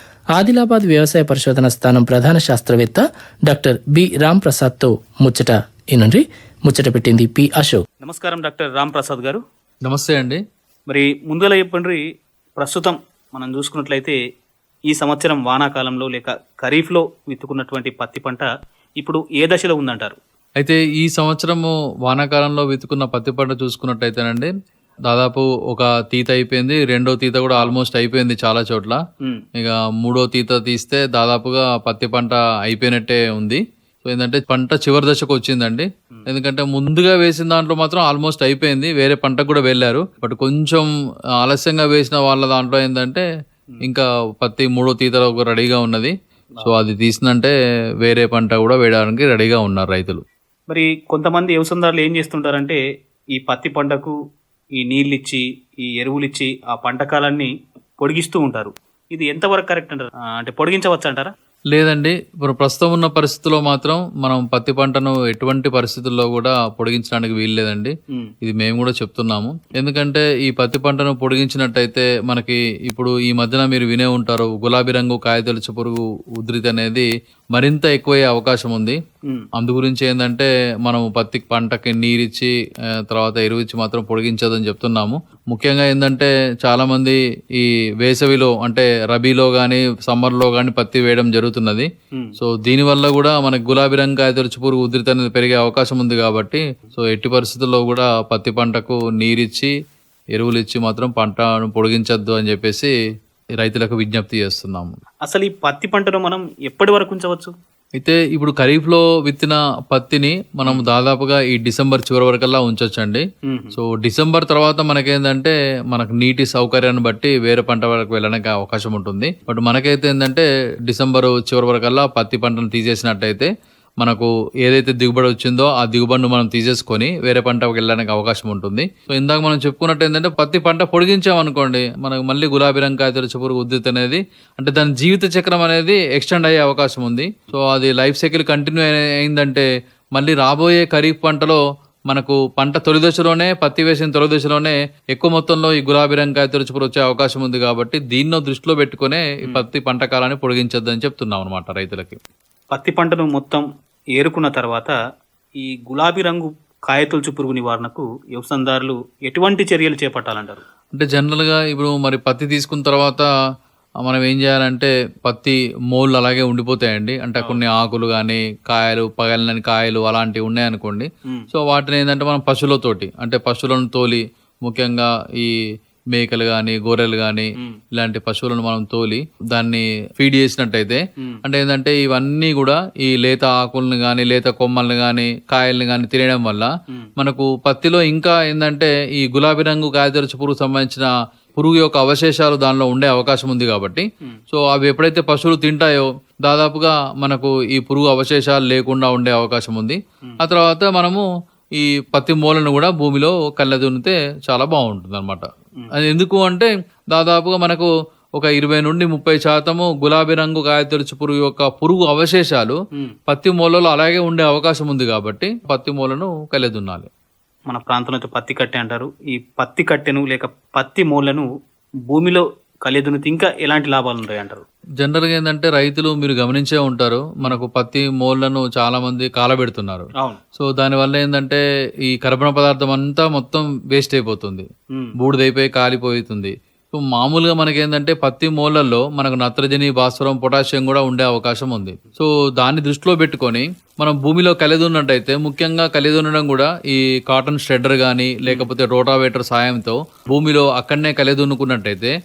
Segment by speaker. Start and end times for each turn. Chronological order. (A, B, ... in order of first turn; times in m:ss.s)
0:00.4-0:07.8 A
0:08.0-0:09.4 B
0:09.8-0:10.4 C
0:10.9-0:12.0 B
0:12.6-0:14.2 B
0:14.9-0:18.5 B
0:19.0-0:20.2 B
0:20.6-0:24.5 C
0:25.1-0:29.0 C
0:29.6-0:40.9 C
0:41.4-0:43.2 C
0:43.8-0:50.2 C
0:50.7-0:52.8 B
0:53.4-0:54.1 B
0:54.8-1:01.3 B
1:01.7-1:19.0 C
1:19.5-1:22.5 C
1:23.1-1:39.7 C
1:40.3-1:42.9 C
1:43.6-1:44.9 C
1:45.2-1:47.5 B
1:48.0-2:03.5 C
1:53.5-1:53.8 B
2:04.0-2:32.2 C
2:32.7-2:33.6 B
2:34.2-2:34.9 B
2:35.6-2:40.6 B
2:40.9-2:43.3 C
2:44.0-2:55.5 C
2:56.1-3:21.2 C
3:21.8-3:32.8 C
3:33.3-3:37.1 C
3:37.7-3:41.4 B
3:42.1-3:44.6 B
3:45.0-3:54.6 C
3:55.2-4:12.1 C